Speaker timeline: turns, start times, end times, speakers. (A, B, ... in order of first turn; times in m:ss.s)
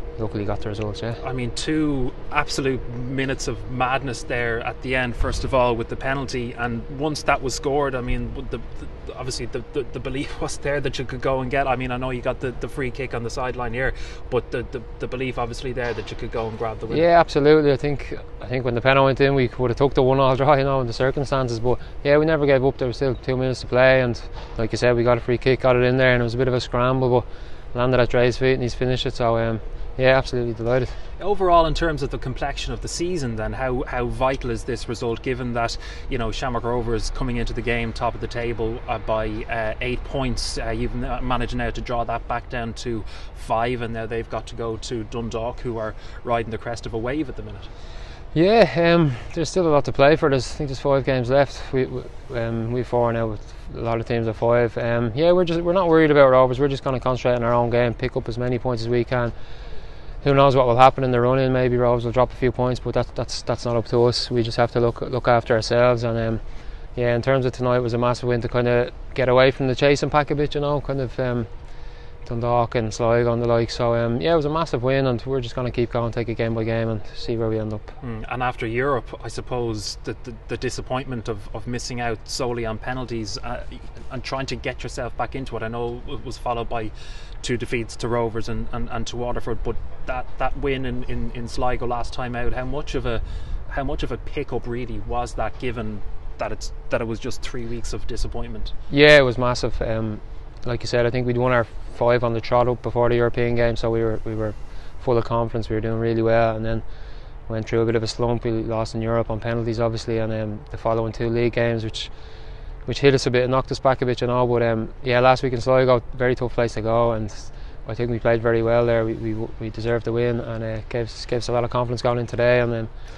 0:00.2-0:01.2 A
0:01.2-0:17.0 B
0:16.9-0:30.9 A
0:31.2-0:47.7 B
0:48.3-0:59.3 A
1:00.2-1:06.4 A
1:07.0-1:11.5 A
1:12.2-1:17.9 A
1:18.0-1:38.7 B
1:38.9-1:46.8 A
1:47.5-1:52.1 A
1:52.8-2:02.9 A